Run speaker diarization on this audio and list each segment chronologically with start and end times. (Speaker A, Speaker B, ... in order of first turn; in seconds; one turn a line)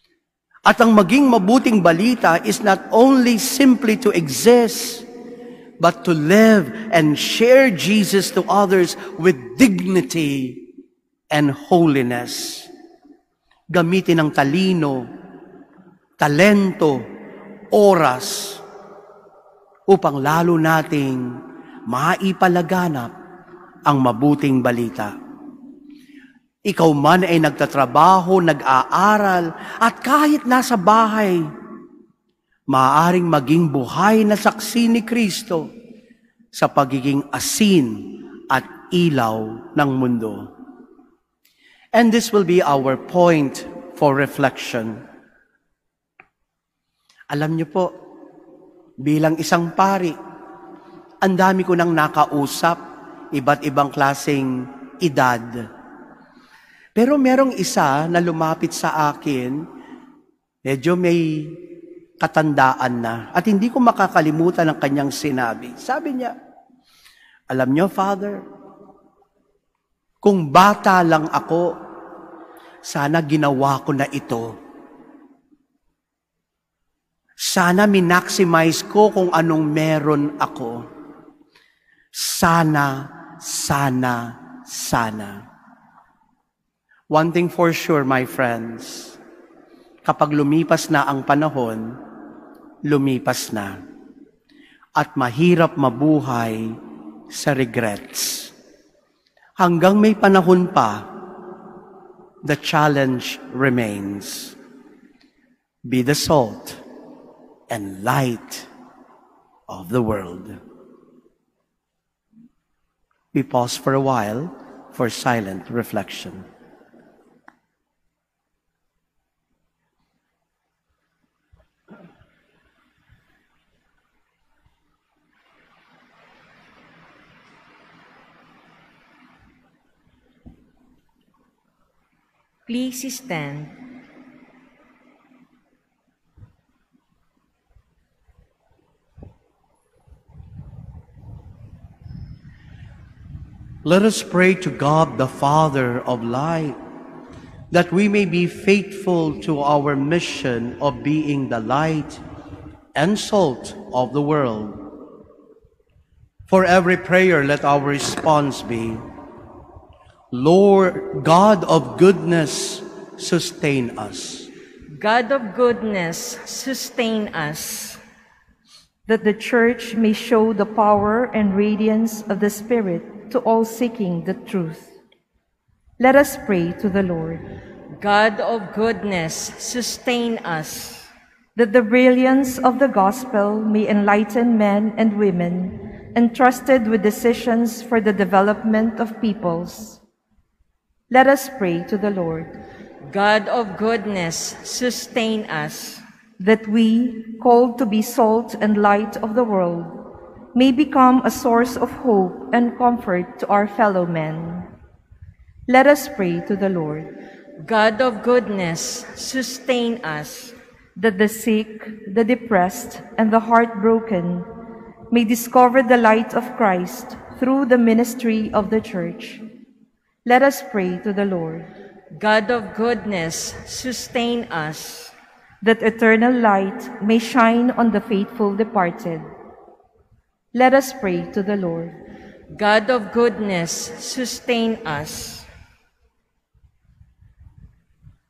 Speaker A: 0.7-5.1
Speaker A: 5.8-10.6
Speaker A: 11.3-12.7
Speaker A: 13.7-15.1
Speaker A: 16.2-17.0
Speaker A: 17.7-18.6
Speaker A: 19.9-21.3
Speaker A: 21.9-23.1
Speaker A: 23.9-25.1
Speaker A: 26.7-31.4
Speaker A: 32.7-35.7
Speaker A: 36.5-40.5
Speaker A: 41.9-45.0
Speaker A: 47.3-47.9
Speaker A: 49.0-50.2
Speaker A: 51.2-52.8
Speaker A: 53.3-55.5
Speaker A: 57.0-59.6
Speaker A: 60.6-61.6
Speaker A: 62.2-66.3
Speaker A: 67.5-68.4
Speaker A: 70.2-71.7
Speaker A: 72.8-74.5
Speaker A: 77.4-80.8
Speaker A: 82.1-85.4
Speaker A: 87.1-89.2
Speaker A: 90.0-92.0
Speaker A: 92.8-93.8
Speaker A: 95.0-96.8
Speaker A: 97.3-98.5
Speaker A: 99.6-101.1
Speaker A: 102.4-104.5
Speaker A: 105.8-106.8
Speaker A: 107.7-108.7
Speaker A: 109.7-110.6
Speaker A: 113.3-116.5
Speaker B: 132.7-133.7
Speaker A: 143.8-146.8
Speaker A: 147.7-152.2
Speaker A: 152.9-154.9
Speaker A: 156.5-159.0
Speaker A: 160.3-164.5
Speaker B: 164.9-168.0
Speaker C: 169.1-174.9
Speaker C: 176.0-177.4
Speaker B: 178.0-181.1
Speaker C: 181.6-190.0
Speaker C: 191.1-192.5
Speaker B: 193.1-196.0
Speaker C: 196.4-200.0
Speaker C: 200.5-204.7
Speaker C: 205.7-207.1
Speaker B: 207.6-210.5
Speaker C: 211.0-214.5
Speaker C: 215.1-219.4
Speaker C: 220.2-221.7
Speaker B: 222.1-225.1
Speaker C: 225.6-229.2
Speaker C: 230.5-231.9
Speaker B: 232.5-235.5